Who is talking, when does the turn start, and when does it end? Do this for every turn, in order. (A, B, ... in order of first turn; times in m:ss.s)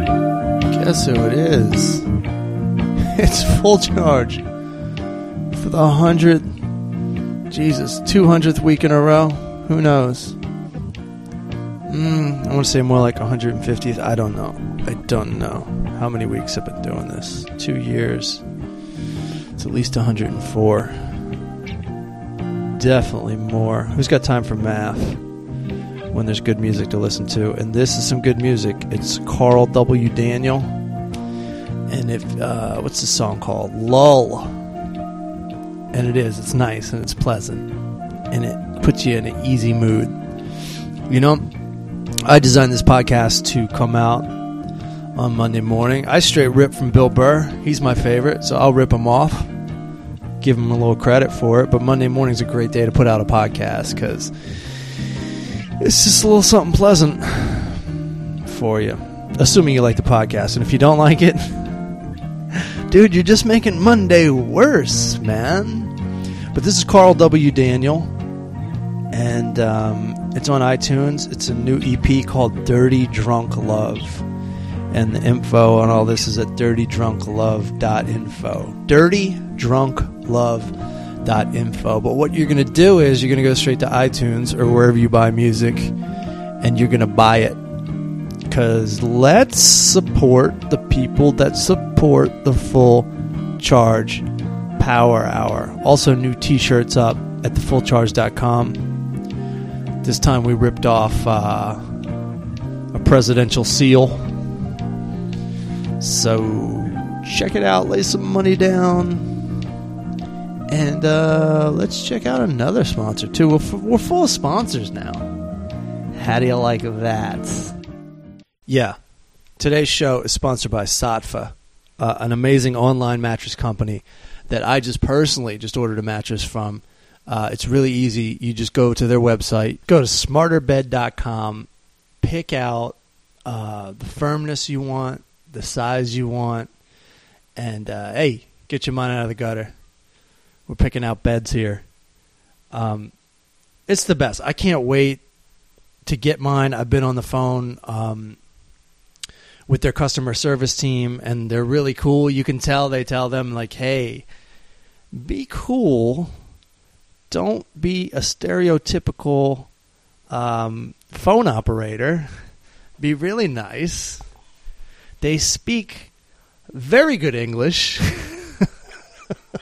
0:00.7-0:02.0 A
0:03.0-0:04.4 A
0:05.5-0:06.6 A
0:07.5-0:10.4 A
0:11.9-0:18.4 A
0:19.6-0:21.2 A
0:22.7-0:25.2 A
0:26.1-0:30.8 A
0:31.9-0:34.6 A
0:35.9-0:37.8 A
0:38.3-0:40.2 A
0:41.1-0:41.5 A
0:42.2-0:44.4 A
0:45.1-0:49.5 A
0:50.4-0:54.8 A
0:55.8-0:57.9 A
0:58.4-1:01.7 A
1:02.5-1:05.9 A
1:06.5-1:08.1 A
1:09.1-1:14.2 A
1:14.9-1:25.9 A
1:26.6-1:27.6 A
1:28.5-1:34.2 A
1:34.8-1:39.0 A
1:40.0-1:41.8 A
1:42.9-1:44.3 A
1:46.0-1:49.4 A
1:50.7-1:55.2 A
1:56.1-1:57.7 A
1:58.7-1:59.0 A
1:59.6-2:11.7 A
2:12.2-2:16.7 A
2:17.6-2:19.7 A
2:20.7-2:21.8 A
2:22.7-2:23.1 A
2:23.9-2:25.2 A
2:26.0-2:28.4 A
2:29.7-2:34.3 A
2:35.1-2:36.3 A
2:37.3-2:39.7 A
2:40.3-2:42.3 A
2:43.0-2:44.2 A
2:45.2-2:46.1 A
2:46.7-2:48.7 A